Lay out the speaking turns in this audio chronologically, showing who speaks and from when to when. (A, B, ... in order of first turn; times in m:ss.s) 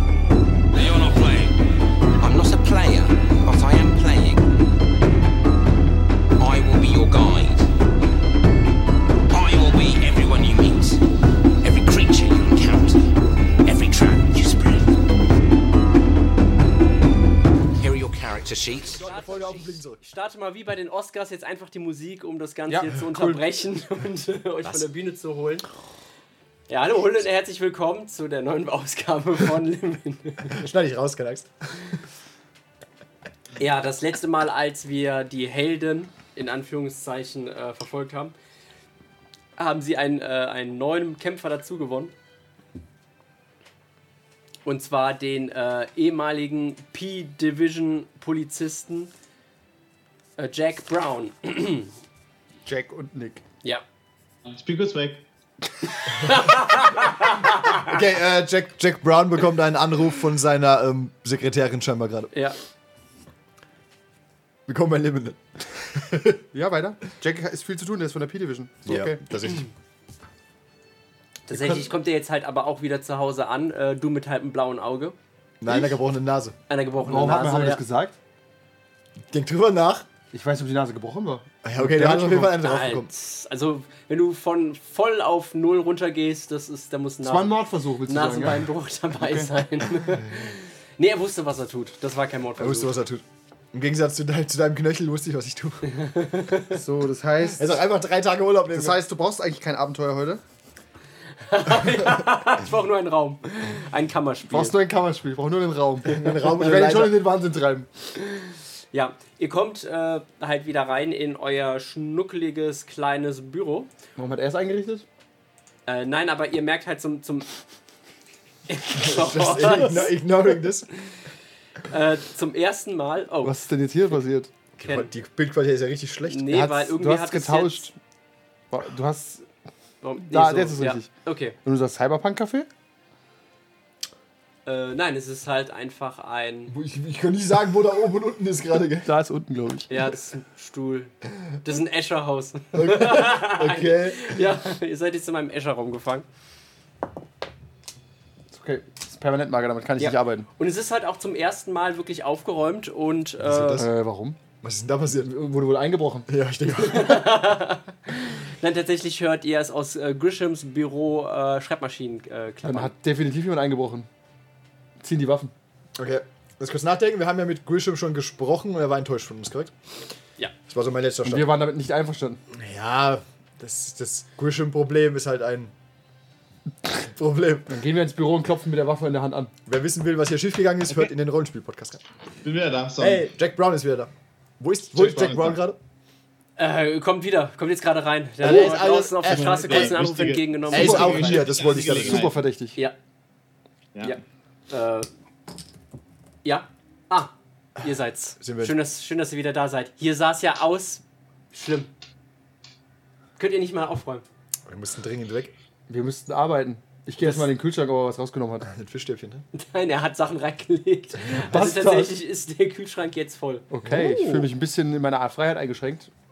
0:00.7-0:01.6 A
0:02.2-0:04.5 A
0:06.4-0:07.7 A
0:09.3-0:11.0 A
0:11.6-0:13.0 A
0:13.6-0:15.0 A
0:17.8-0:19.1 A
0:18.9-0:20.1 B
0:19.1-0:25.7 C
0:22.7-0:23.4 D
0:26.7-0:30.7 C
0:30.5-0:32.0 B
0:33.6-0:38.4 C
0:39.6-0:42.1 C
0:44.6-0:49.1 C
0:50.4-0:51.9 C
0:52.7-0:53.4 D
0:54.5-0:55.3 E
0:56.0-0:57.9 C
0:57.7-1:02.3 B
1:02.3-1:02.6 C
1:04.7-1:06.4 B
1:06.5-1:09.2 D
1:08.8-1:09.7 B
1:11.5-1:11.9 D
1:11.5-1:15.2 C
1:15.6-1:16.6 B
1:16.7-1:17.8 C
1:17.0-1:18.1 D
1:19.3-1:20.1 B
1:20.3-1:22.5 D
1:21.6-1:23.1 B
1:22.6-1:33.0 C
1:27.2-1:29.5 D
1:32.6-1:35.9 B
1:35.9-1:36.8 C
1:36.7-1:37.7 D
1:37.5-1:39.0 B
1:38.7-1:40.4 D
1:41.4-1:44.8 C
1:44.5-1:47.9 D
1:46.1-1:47.2 B
1:48.2-1:53.9 C
1:54.2-1:55.1 D
1:55.9-1:57.5 C
1:58.7-2:00.2 C
1:59.0-2:00.9 B
2:01.8-2:03.6 C
2:03.4-2:04.5 D
2:04.8-2:06.5 B
2:04.8-2:05.1 C
2:06.3-2:07.9 C
2:06.5-2:08.0 D
2:08.7-2:09.5 D
2:10.0-2:11.6 C
2:10.2-2:11.1 D
2:11.6-2:12.7 D
2:14.7-2:16.7 C
2:16.7-2:19.1 B
2:19.0-2:19.9 D
2:19.9-2:26.3 C
2:22.7-2:24.4 B
2:28.5-2:30.5 D
2:30.0-2:33.9 C
2:33.4-2:33.9 B
2:33.8-2:34.4 D
2:34.6-2:35.4 B
2:35.2-2:36.3 D
2:36.3-2:37.3 B
2:36.7-2:42.9 C
2:42.6-2:44.1 D
2:45.0-2:45.5 D
2:46.0-2:49.7 B
2:50.7-2:51.5 B
2:51.2-2:52.4 D
2:52.5-2:55.7 B
2:57.0-2:57.8 B
2:57.7-2:59.5 D
2:59.7-3:02.0 B
3:02.4-3:03.3 E
3:03.0-3:05.8 B
3:04.9-3:05.6 E
3:06.6-3:11.5 C
3:08.4-3:12.4 B
3:09.3-3:12.4 E
3:10.8-3:12.8 D
3:14.0-3:15.1 C
3:16.4-3:21.9 C
3:18.4-3:18.8 B
3:23.4-3:24.2 C
3:24.7-3:25.5 B
3:25.9-3:28.7 D
3:28.6-3:29.4 B
3:29.5-3:34.4 C
3:31.3-3:32.2 D
3:33.7-3:36.1 D
3:33.8-3:34.3 B